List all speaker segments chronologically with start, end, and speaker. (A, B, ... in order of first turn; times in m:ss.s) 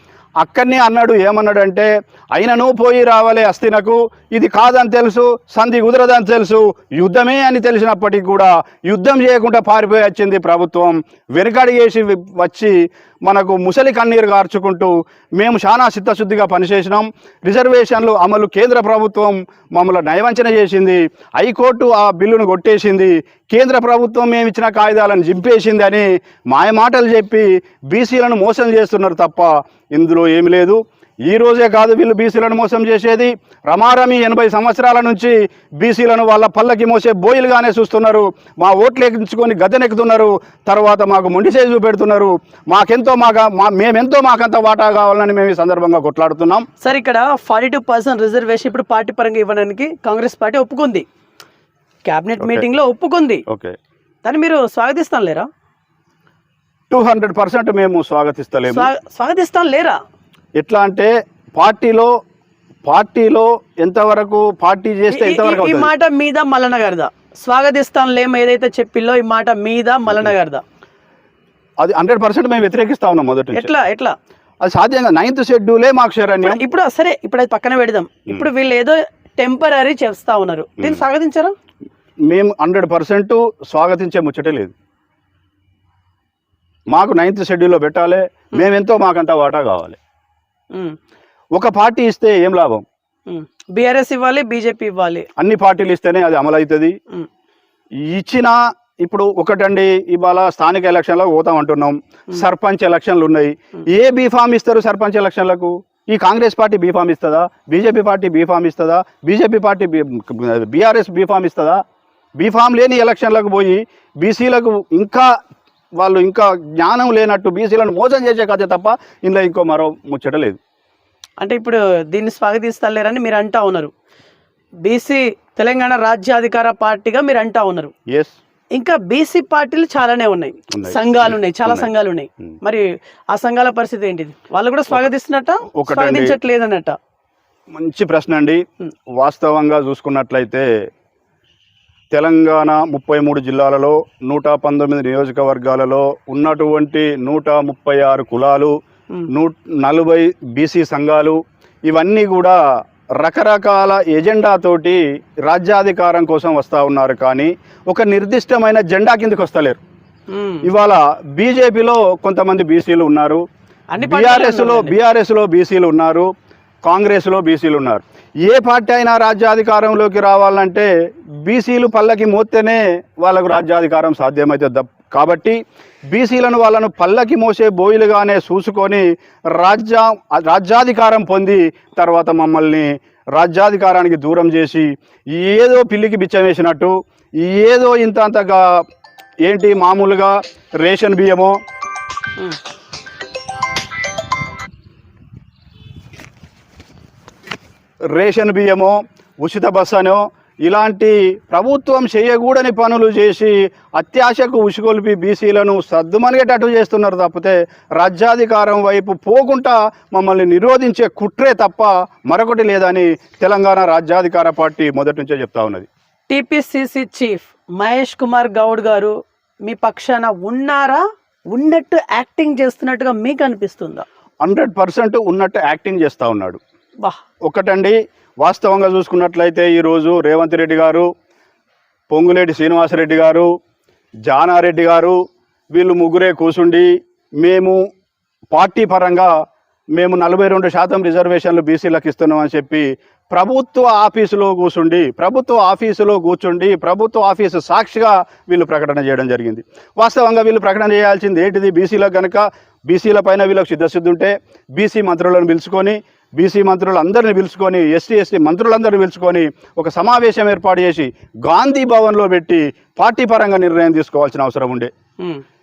0:00.4-0:46.7 A
0:46.8-0:51.0 B
0:52.0-0:53.4 B
0:52.4-0:52.6 A
0:53.5-0:53.7 A
0:54.2-0:55.5 B
0:56.9-0:58.9 A
0:58.7-1:00.0 B
1:00.6-1:02.1 A
1:02.9-1:05.9 A
1:05.1-1:10.6 B
1:11.8-1:13.7 A
1:13.5-1:14.1 B
1:14.6-1:16.6 A
1:16.4-1:21.5 B
1:22.3-1:24.7 A
1:26.9-1:30.0 A
1:31.6-1:32.8 A
1:33.3-1:35.3 B
1:35.4-1:37.0 A
1:38.1-1:51.8 A
1:52.4-1:55.3 A
1:56.0-2:00.6 A
2:01.4-2:03.9 B
2:04.8-2:07.9 B
2:08.1-2:08.4 A
2:08.8-2:17.0 B
2:10.7-2:11.9 A
2:15.8-2:16.4 A
2:17.7-2:18.6 A
2:19.2-2:20.7 A
2:22.1-2:28.7 A
2:29.3-2:32.6 A
2:33.2-2:39.8 A
2:40.3-2:40.7 B
2:40.6-2:43.4 A
2:43.9-2:45.0 B
2:44.0-2:46.3 A
2:46.8-2:50.9 A
2:51.4-3:08.8 A
3:09.4-3:11.6 A
3:18.2-3:35.9 A
3:36.3-3:39.1 B
3:39.6-3:44.0 B
3:44.4-3:46.6 A
3:47.5-3:51.1 A
3:52.1-3:53.5 A
3:54.2-3:55.2 A
3:55.7-3:56.9 A
3:57.4-3:57.8 A
3:58.5-3:59.3 A
4:00.0-4:24.9 A